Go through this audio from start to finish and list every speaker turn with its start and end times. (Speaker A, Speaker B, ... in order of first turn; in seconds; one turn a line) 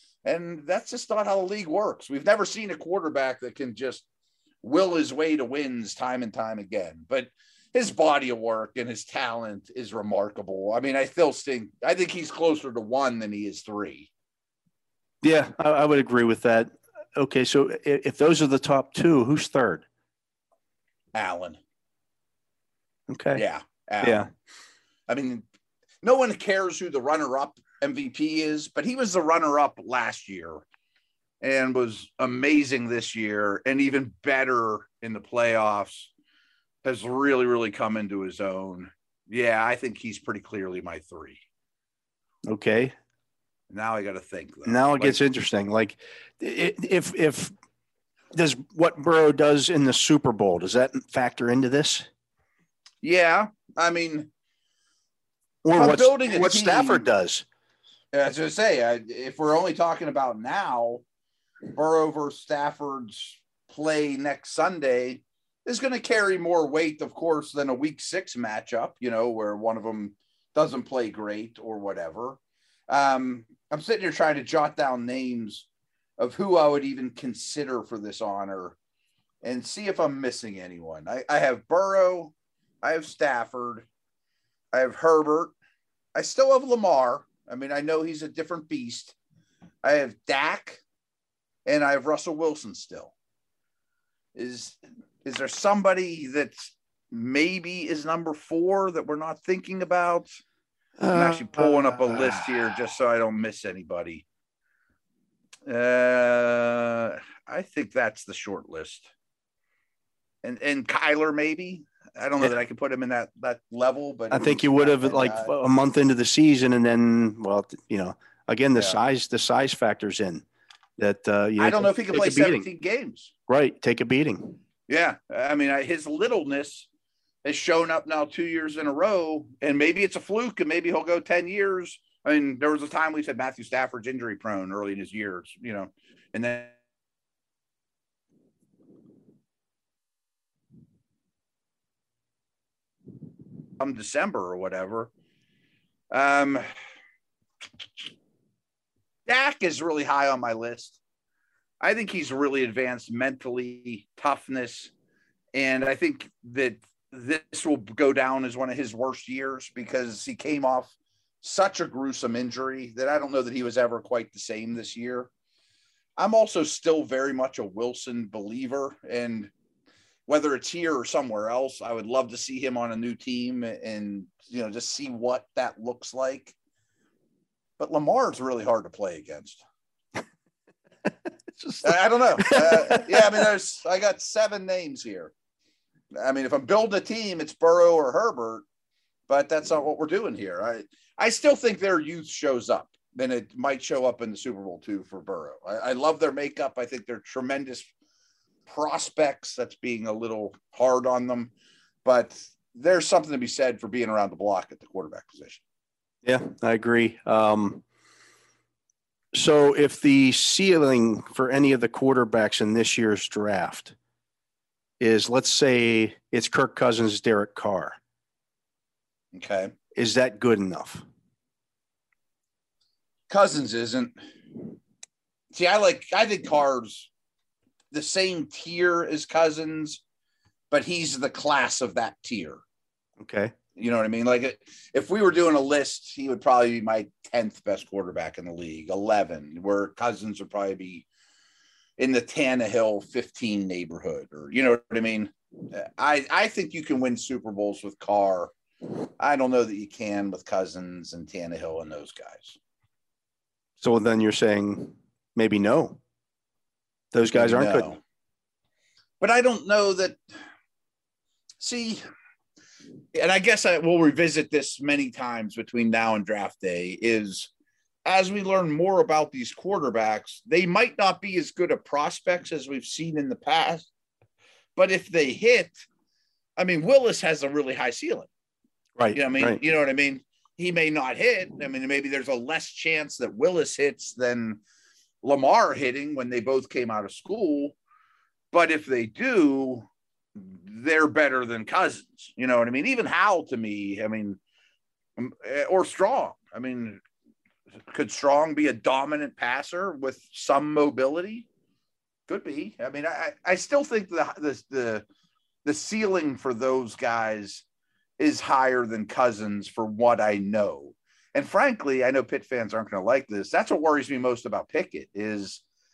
Speaker A: 0.2-4.0
Speaker A: 4.6-14.1
Speaker B: 15.2-19.8
Speaker A: 21.1-21.6
Speaker B: 23.1-23.4
Speaker A: 23.3-24.3
Speaker B: 24.0-24.3
Speaker A: 25.1-25.4
Speaker A: 26.0-30.6
Speaker A: 31.4-36.1
Speaker A: 36.8-41.4
Speaker B: 42.5-42.9
Speaker A: 43.7-45.2
Speaker B: 44.7-47.5
Speaker B: 48.3-52.1
Speaker A: 53.0-54.3
Speaker B: 55.6-57.5
Speaker A: 55.7-57.1
Speaker A: 58.1-61.0
Speaker A: 61.7-75.7
Speaker A: 76.2-78.8
Speaker A: 79.4-83.9
Speaker A: 84.7-85.6
Speaker A: 86.2-89.2
Speaker A: 89.8-90.8
Speaker A: 91.7-93.1
Speaker A: 94.3-100.3
Speaker B: 101.0-102.7
Speaker A: 101.1-104.3
Speaker A: 105.7-109.1
Speaker A: 110.4-115.5
Speaker B: 114.3-120.5
Speaker B: 121.0-122.7
Speaker A: 121.6-123.3
Speaker B: 123.5-124.6
Speaker A: 124.9-126.9
Speaker A: 127.4-136.8
Speaker A: 143.8-145.1
Speaker A: 146.1-146.7
Speaker A: 149.3-151.0
Speaker A: 151.8-154.9
Speaker A: 155.5-165.3
Speaker A: 166.2-169.5
Speaker A: 170.3-176.6
Speaker A: 177.8-179.6
Speaker B: 181.5-183.4
Speaker A: 181.8-185.3
Speaker A: 186.1-188.7
Speaker A: 189.3-197.9
Speaker A: 198.7-201.5
Speaker A: 202.0-205.6
Speaker B: 206.2-207.8
Speaker B: 209.3-213.9
Speaker B: 215.0-218.0
Speaker A: 219.3-219.7
Speaker B: 219.9-221.0
Speaker A: 223.3-224.2
Speaker A: 225.5-227.1
Speaker A: 227.9-230.0
Speaker A: 230.7-232.6
Speaker B: 233.2-233.5
Speaker A: 233.8-241.1
Speaker A: 242.0-248.5
Speaker A: 249.2-252.6
Speaker B: 253.8-256.0
Speaker B: 257.1-257.9
Speaker A: 257.3-258.0
Speaker A: 259.2-260.2
Speaker A: 261.6-262.0
Speaker A: 263.1-267.5
Speaker A: 268.1-273.9
Speaker A: 274.8-275.9
Speaker A: 276.6-278.3
Speaker B: 279.0-279.6
Speaker A: 279.1-284.6
Speaker A: 285.2-287.8
Speaker A: 288.5-294.4
Speaker A: 295.2-297.0
Speaker A: 297.9-301.5
Speaker A: 302.3-305.1
Speaker A: 305.6-307.6
Speaker A: 308.2-315.6